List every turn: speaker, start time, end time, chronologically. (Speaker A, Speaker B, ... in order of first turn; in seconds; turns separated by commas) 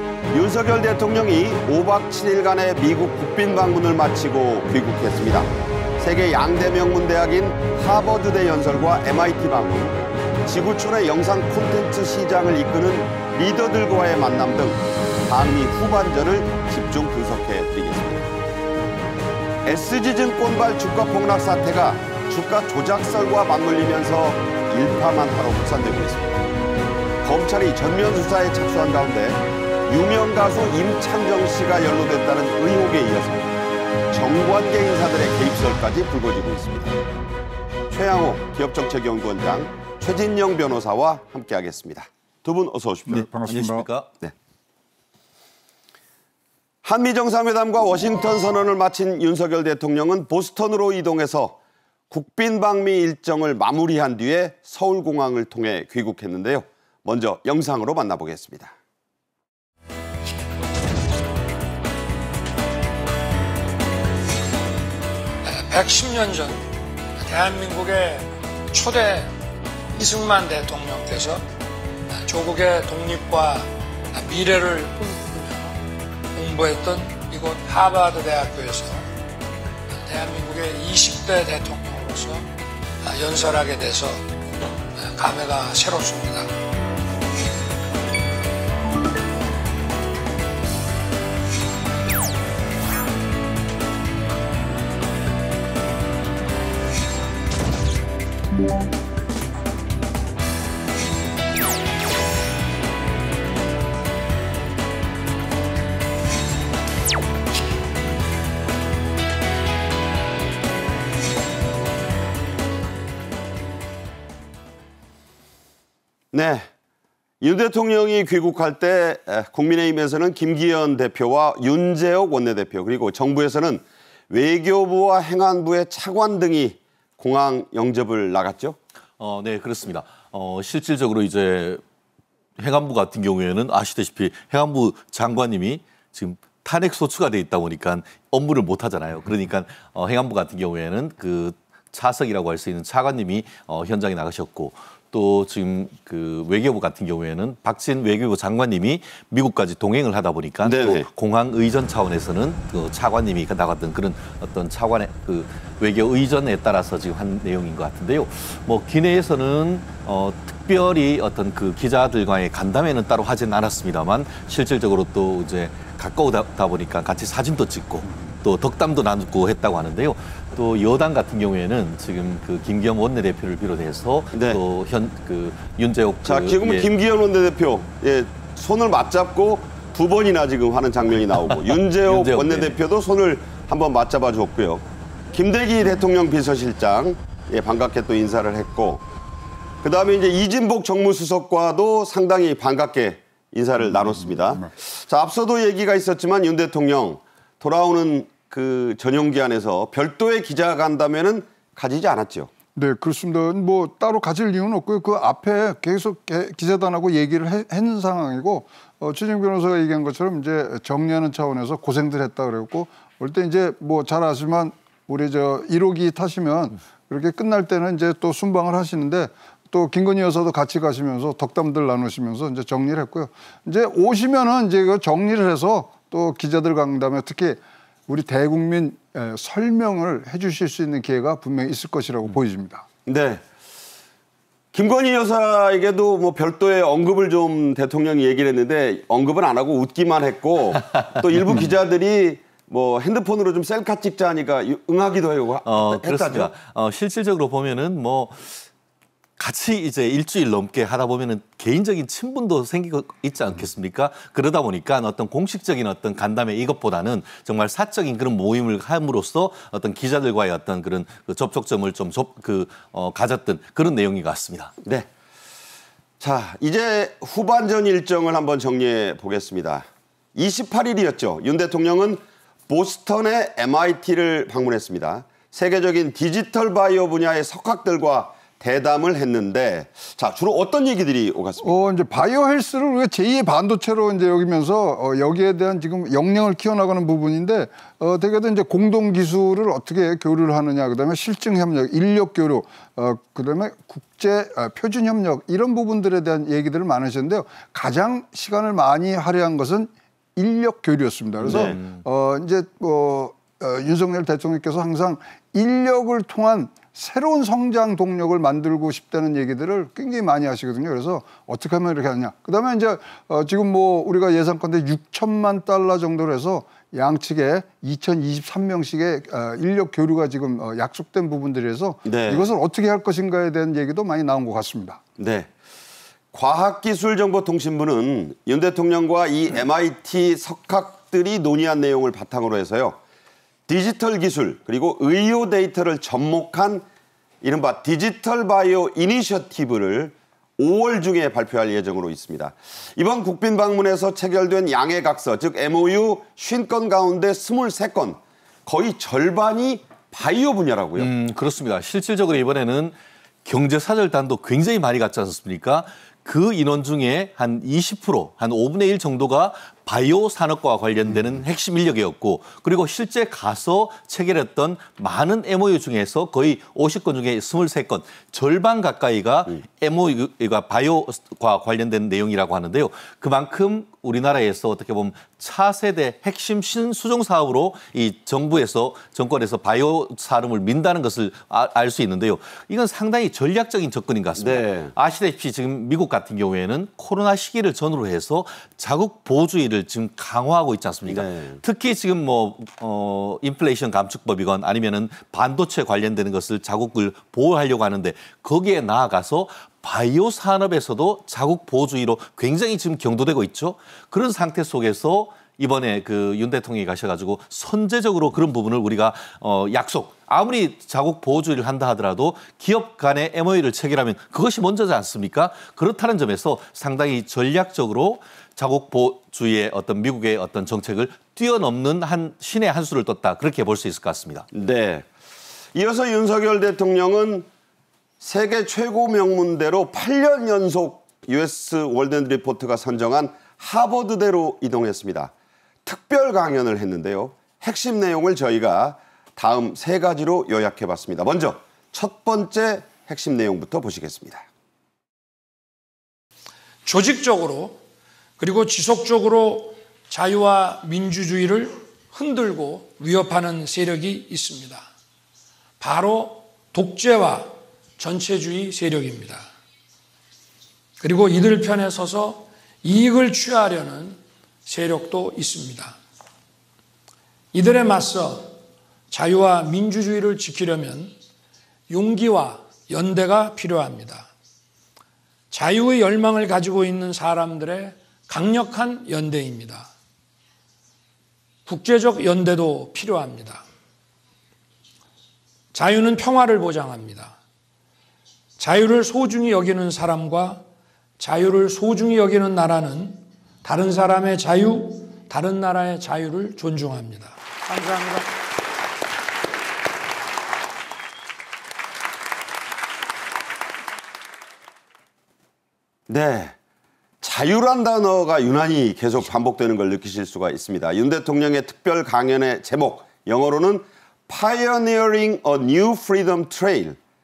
Speaker A: 0.3-18.2, Speaker A: 19.6-26.3, Speaker A: 27.2-33.5, Speaker A: 34.1-37.0, Speaker A: 37.9-43.3, Speaker B: 43.1-43.9, Speaker C: 43.4-44.1, Speaker A: 46.8-51.6, Speaker A: 52.1-58.7, Speaker D: 65.5-69.3, Speaker D: 69.9-71.5, Speaker D: 72.1-75.8, Speaker D: 76.3-79.1, Speaker D: 79.9-82.5, Speaker D: 83.0-84.3, Speaker D: 84.9-86.5, Speaker A: 116.3-116.7, Speaker A: 117.4-128.8, Speaker C: 129.2-131.8, Speaker C: 132.6-176.9, Speaker A: 150.6-151.1, Speaker A: 174.3-174.6, Speaker A: 176.2-189.0, Speaker C: 181.5-182.8, Speaker A: 189.8-202.5, Speaker B: 202.8-232.8, Speaker A: 233.1-233.4, Speaker A: 234.7-246.5, Speaker C: 245.6-248.6, Speaker C: 249.4-264.7, Speaker A: 266.2-281.7, Speaker B: 281.6-325.0, Speaker A: 301.4-301.8, Speaker C: 301.5-302.0, Speaker A: 322.1-322.5, Speaker A: 325.2-325.5, Speaker A: 326.3-333.0, Speaker A: 333.7-336.8, Speaker A: 337.4-351.1, Speaker C: 351.0-424.5, Speaker A: 384.4-384.9, Speaker A: 391.1-391.6, Speaker A: 424.5-425.1, Speaker A: 425.7-427.4, Speaker A: 428.2-435.3, Speaker A: 435.8-444.4, Speaker D: 446.8-447.8, Speaker D: 448.4-454.9, Speaker D: 455.8-459.5, Speaker D: 461.0-466.0, Speaker D: 467.5-468.6, Speaker D: 469.1-471.1, Speaker D: 471.9-474.3, Speaker D: 475.5-479.9, Speaker D: 481.6-483.6, Speaker D: 485.7-487.4, Speaker D: 488.6-490.6, Speaker D: 491.2-498.3, Speaker A: 506.1-506.5, Speaker A: 507.2-517.0